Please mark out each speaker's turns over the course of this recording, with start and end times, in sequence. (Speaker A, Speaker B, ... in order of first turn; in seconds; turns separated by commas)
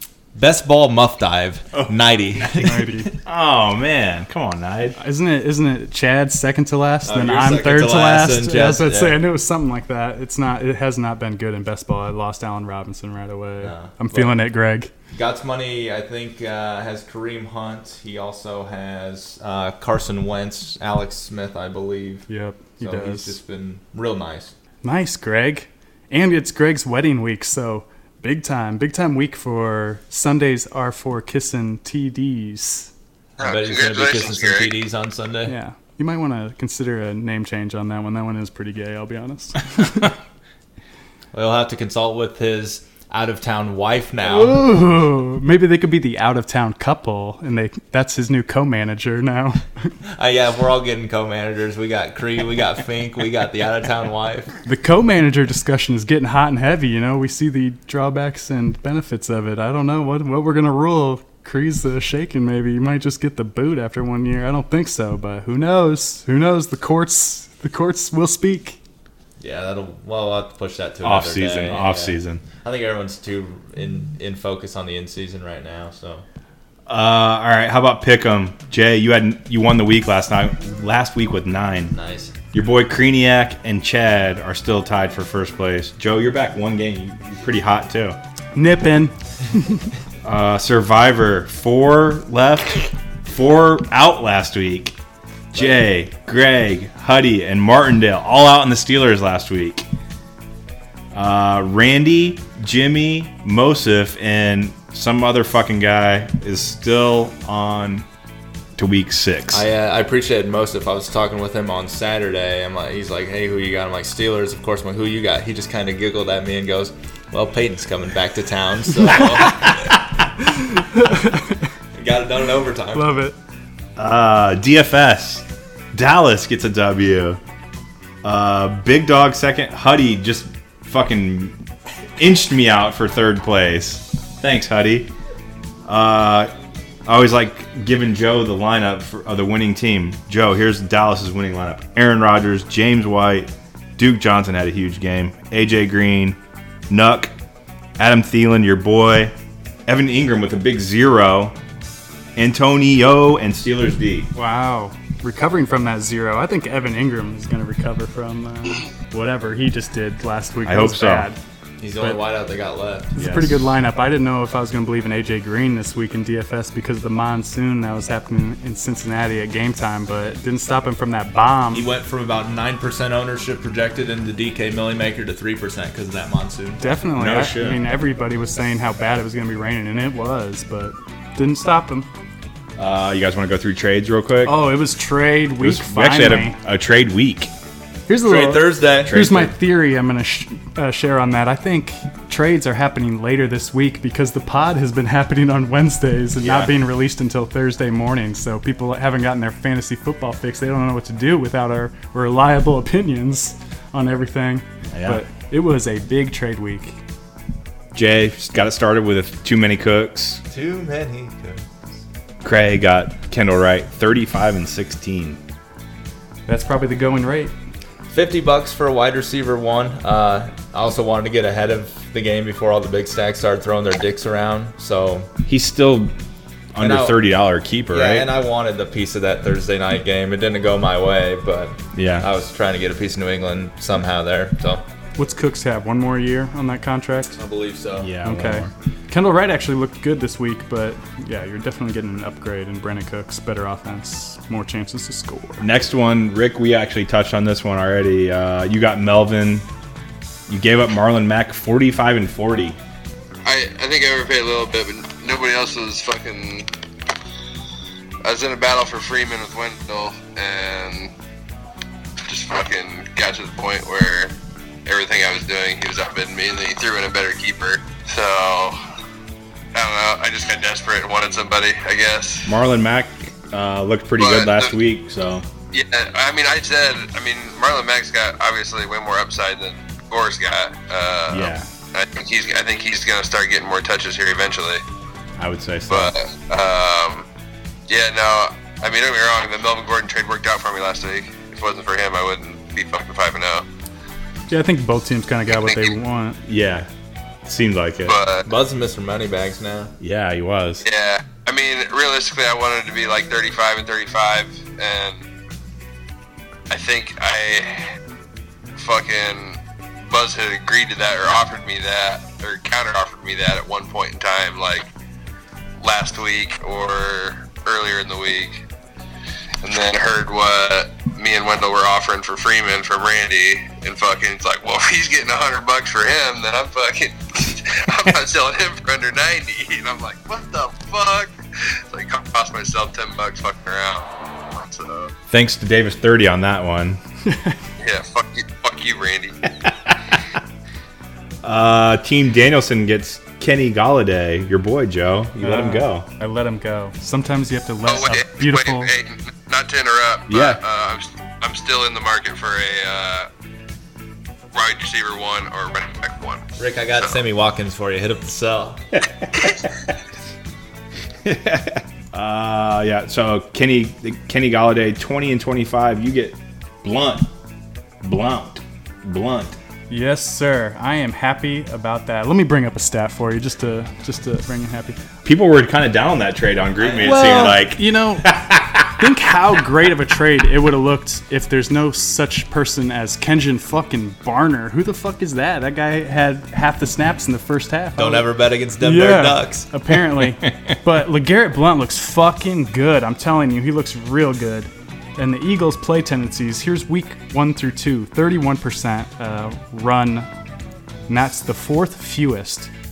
Speaker A: 0.3-2.9, Speaker B: 1.7-2.7, Speaker C: 2.6-3.1, Speaker B: 3.2-5.0, Speaker C: 5.0-14.9, Speaker A: 7.0-9.2, Speaker A: 13.6-14.4, Speaker A: 15.1-22.3, Speaker C: 22.3-23.4, Speaker A: 22.8-24.5, Speaker C: 24.8-32.9, Speaker A: 33.4-35.5, Speaker D: 33.4-34.8, Speaker C: 35.5-40.1, Speaker A: 41.3-44.7, Speaker C: 44.2-49.9, Speaker A: 50.1-54.5, Speaker C: 54.6-68.8, Speaker A: 69.4-76.2, Speaker B: 71.0-72.4, Speaker B: 76.9-81.9, Speaker A: 81.9-82.3, Speaker B: 82.5-88.2, Speaker C: 88.5-89.9, Speaker B: 90.2-94.9, Speaker B: 95.5-99.8, Speaker B: 101.1-108.0, Speaker B: 108.8-109.7, Speaker A: 109.5-119.7, Speaker C: 120.4-121.6, Speaker A: 121.9-123.1, Speaker C: 122.9-123.3, Speaker B: 124.0-127.4, Speaker B: 128.2-131.6, Speaker B: 132.2-135.1, Speaker B: 135.8-136.5, Speaker B: 137.1-146.4, Speaker B: 146.9-147.3, Speaker B: 148.0-149.3, Speaker B: 149.9-151.6, Speaker B: 152.3-154.3, Speaker C: 154.3-161.4, Speaker B: 160.6-161.3, Speaker A: 161.8-163.1, Speaker C: 163.1-171.8, Speaker B: 163.2-163.6, Speaker A: 171.7-176.8, Speaker C: 176.8-182.1, Speaker B: 177.1-177.9, Speaker B: 182.8-184.6, Speaker C: 184.4-186.6, Speaker B: 185.6-187.5, Speaker C: 188.1-207.0, Speaker A: 188.2-189.2, Speaker B: 189.0-189.5, Speaker B: 196.4-196.7, Speaker B: 204.9-205.2, Speaker B: 207.9-210.4, Speaker A: 210.5-211.6, Speaker B: 212.4-215.4, Speaker C: 216.5-217.5, Speaker A: 218.1-225.3, Speaker B: 225.4-226.1, Speaker B: 226.7-228.3, Speaker A: 226.8-227.2, Speaker A: 227.9-234.8, Speaker B: 231.9-232.3, Speaker C: 235.2-237.4, Speaker A: 237.4-238.1, Speaker B: 238.0-238.7, Speaker C: 238.2-245.6, Speaker B: 245.6-249.7, Speaker B: 250.5-252.8, Speaker D: 253.4-256.7, Speaker D: 258.2-261.1, Speaker D: 262.2-264.3, Speaker D: 264.9-268.8, Speaker D: 269.7-272.5, Speaker B: 272.4-275.5, Speaker D: 274.2-274.7, Speaker D: 275.7-284.8, Speaker B: 281.3-281.7, Speaker B: 285.4-286.1, Speaker D: 285.9-287.2, Speaker D: 287.9-293.6, Speaker C: 294.5-296.4, Speaker D: 295.5-295.9, Speaker B: 296.4-296.9, Speaker B: 297.4-298.2, Speaker D: 298.1-298.4, Speaker A: 298.4-299.9, Speaker B: 300.0-300.8, Speaker D: 300.8-305.2, Speaker D: 306.7-307.9, Speaker D: 308.8-314.9, Speaker D: 315.8-318.6, Speaker D: 319.6-335.1, Speaker B: 335.3-337.0, Speaker C: 337.3-337.6, Speaker D: 337.8-339.4, Speaker B: 339.6-339.9, Speaker B: 341.4-346.1, Speaker C: 345.4-348.9, Speaker D: 347.9-353.3, Speaker B: 350.3-350.6, Speaker D: 354.5-356.4, Speaker A: 356.6-358.8, Speaker B: 358.9-359.6, Speaker B: 361.2-367.3, Speaker B: 368.0-369.6, Speaker C: 369.9-375.0, Speaker B: 375.2-379.0, Speaker A: 376.8-377.6, Speaker C: 377.0-388.3, Speaker A: 387.9-389.7, Speaker C: 388.8-400.3, Speaker B: 390.4-390.7, Speaker C: 401.1-402.7